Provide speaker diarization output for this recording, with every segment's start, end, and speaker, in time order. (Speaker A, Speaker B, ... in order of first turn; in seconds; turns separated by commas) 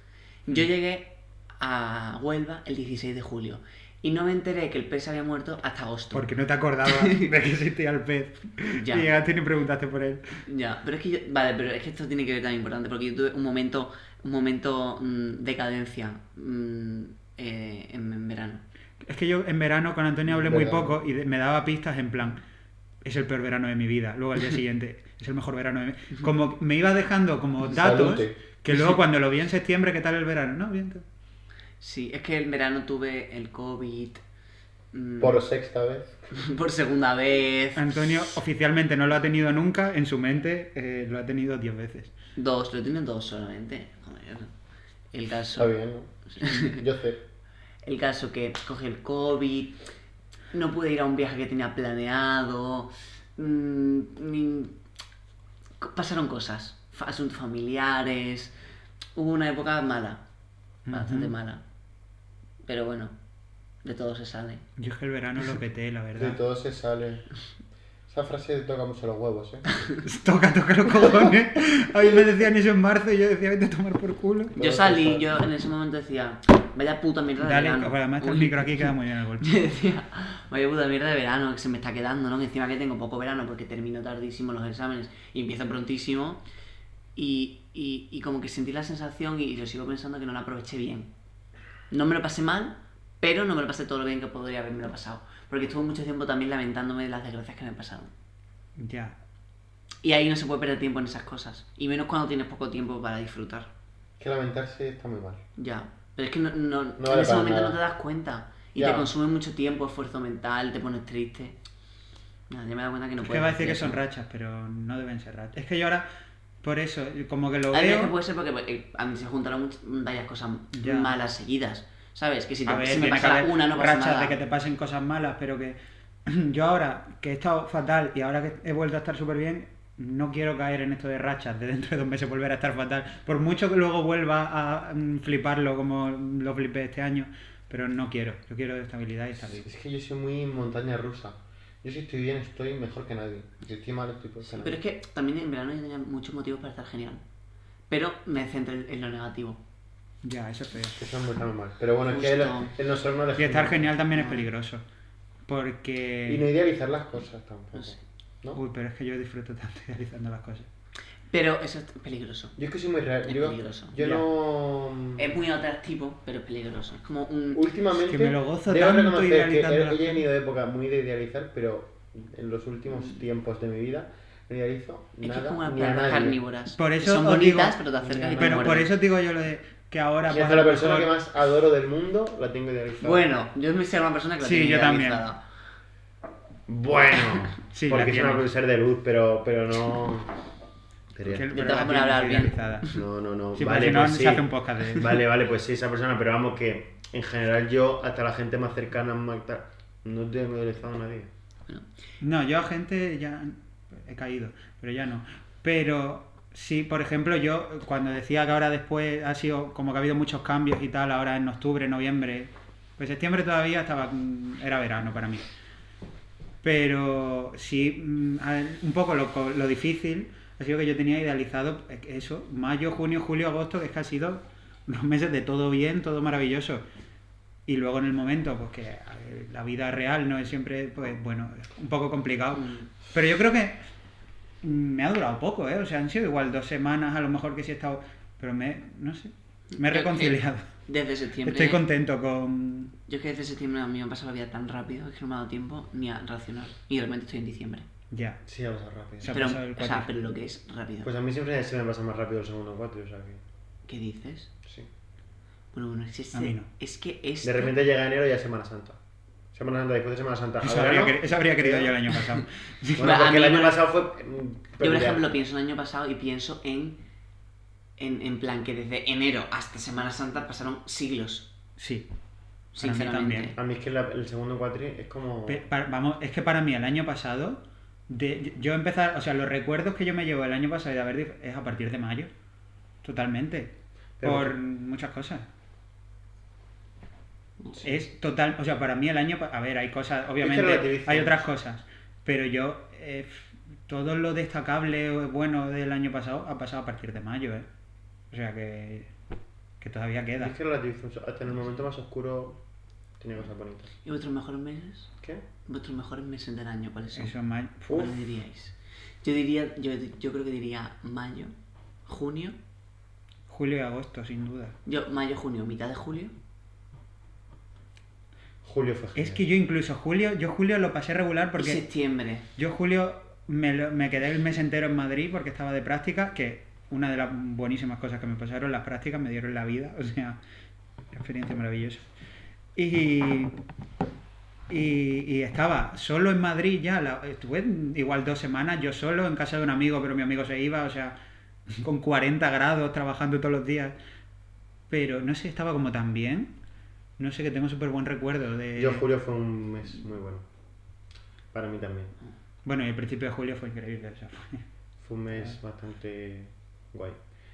Speaker A: 0.5-6.3, Speaker B: 6.1-10.4, Speaker A: 6.8-7.3, Speaker A: 8.8-9.1, Speaker A: 10.5-18.6, Speaker B: 19.0-22.4, Speaker C: 20.3-21.0, Speaker B: 23.0-31.1, Speaker C: 27.7-28.4, Speaker A: 31.8-34.2, Speaker A: 34.9-35.4, Speaker C: 35.2-36.1, Speaker A: 36.3-38.1, Speaker B: 37.8-42.1, Speaker A: 42.4-44.5, Speaker A: 45.1-45.7, Speaker C: 45.5-47.2, Speaker A: 46.3-46.8, Speaker A: 47.8-49.8, Speaker A: 50.5-54.7, Speaker A: 55.8-58.5, Speaker A: 59.1-60.2, Speaker B: 60.9-61.3, Speaker A: 60.9-61.6, Speaker A: 62.6-63.1, Speaker A: 63.8-64.6, Speaker B: 64.8-66.4, Speaker C: 66.2-67.2, Speaker C: 68.1-69.7, Speaker B: 70.0-74.5, Speaker C: 74.5-75.3, Speaker A: 74.6-86.4, Speaker B: 77.4-79.5, Speaker A: 87.2-91.1, Speaker A: 91.9-98.1, Speaker B: 98.8-99.2, Speaker A: 100.0-103.7, Speaker C: 104.2-105.4, Speaker A: 105.6-111.6, Speaker C: 107.0-107.8, Speaker C: 108.8-109.1, Speaker A: 112.5-114.0, Speaker B: 113.2-116.1, Speaker B: 116.6-118.1, Speaker A: 117.7-124.4, Speaker B: 120.8-121.1, Speaker B: 122.7-139.7, Speaker C: 139.4-144.8, Speaker A: 144.5-147.2, Speaker A: 147.9-149.6, Speaker B: 150.2-151.0, Speaker C: 151.0-153.9, Speaker A: 152.1-152.7, Speaker B: 153.4-154.8, Speaker A: 154.2-154.4, Speaker B: 155.5-156.5, Speaker C: 156.3-158.6, Speaker B: 158.6-160.7, Speaker A: 161.3-162.6, Speaker C: 162.6-165.3, Speaker A: 163.3-164.0, Speaker A: 165.2-167.6, Speaker C: 167.5-176.4, Speaker B: 167.9-170.3, Speaker A: 175.2-178.9, Speaker B: 176.8-177.8, Speaker C: 178.1-178.5, Speaker B: 178.3-181.1, Speaker C: 180.3-183.2, Speaker A: 183.0-185.4, Speaker B: 184.4-185.2, Speaker C: 186.7-190.3, Speaker B: 187.7-188.5, Speaker C: 191.1-191.5, Speaker B: 191.2-192.9, Speaker A: 191.5-193.0, Speaker C: 192.9-201.3, Speaker B: 193.6-195.2, Speaker B: 202.2-215.4, Speaker B: 216.6-226.8, Speaker B: 227.7-233.8, Speaker A: 232.5-232.9, Speaker B: 234.6-240.7, Speaker A: 239.7-241.8, Speaker B: 241.4-242.9, Speaker A: 243.1-247.9, Speaker B: 248.1-248.4, Speaker C: 248.4-249.4, Speaker B: 249.2-250.2, Speaker A: 249.3-251.1, Speaker C: 251.0-253.4, Speaker A: 253.9-254.5, Speaker A: 255.7-257.7, Speaker B: 256.3-256.7, Speaker C: 257.4-259.0, Speaker C: 259.5-261.9, Speaker B: 260.6-263.2, Speaker C: 263.0-265.2, Speaker A: 263.0-263.8, Speaker A: 264.8-267.0, Speaker A: 268.0-271.5, Speaker B: 271.8-272.1, Speaker A: 272.7-273.6, Speaker B: 272.8-273.5, Speaker C: 273.6-275.6, Speaker B: 275.5-282.3, Speaker B: 283.0-285.5, Speaker C: 284.2-284.6, Speaker B: 287.8-297.7, Speaker C: 290.4-291.5, Speaker B: 298.3-299.1, Speaker B: 299.8-300.5, Speaker C: 300.4-302.6, Speaker C: 303.2-303.9, Speaker A: 304.1-305.1, Speaker A: 305.7-307.3, Speaker B: 307.1-308.1, Speaker A: 307.9-311.5, Speaker A: 312.1-312.6, Speaker B: 313.5-314.8, Speaker A: 314.9-316.3, Speaker C: 318.6-319.4, Speaker B: 319.1-321.8, Speaker A: 321.6-322.5, Speaker B: 322.6-330.4, Speaker B: 331.1-332.0, Speaker B: 332.8-333.5, Speaker B: 334.7-341.1, Speaker B: 341.8-343.9, Speaker B: 344.9-346.5, Speaker B: 347.2-349.1, Speaker C: 348.8-350.5, Speaker C: 351.5-352.1, Speaker B: 352.6-354.6, Speaker C: 355.0-357.2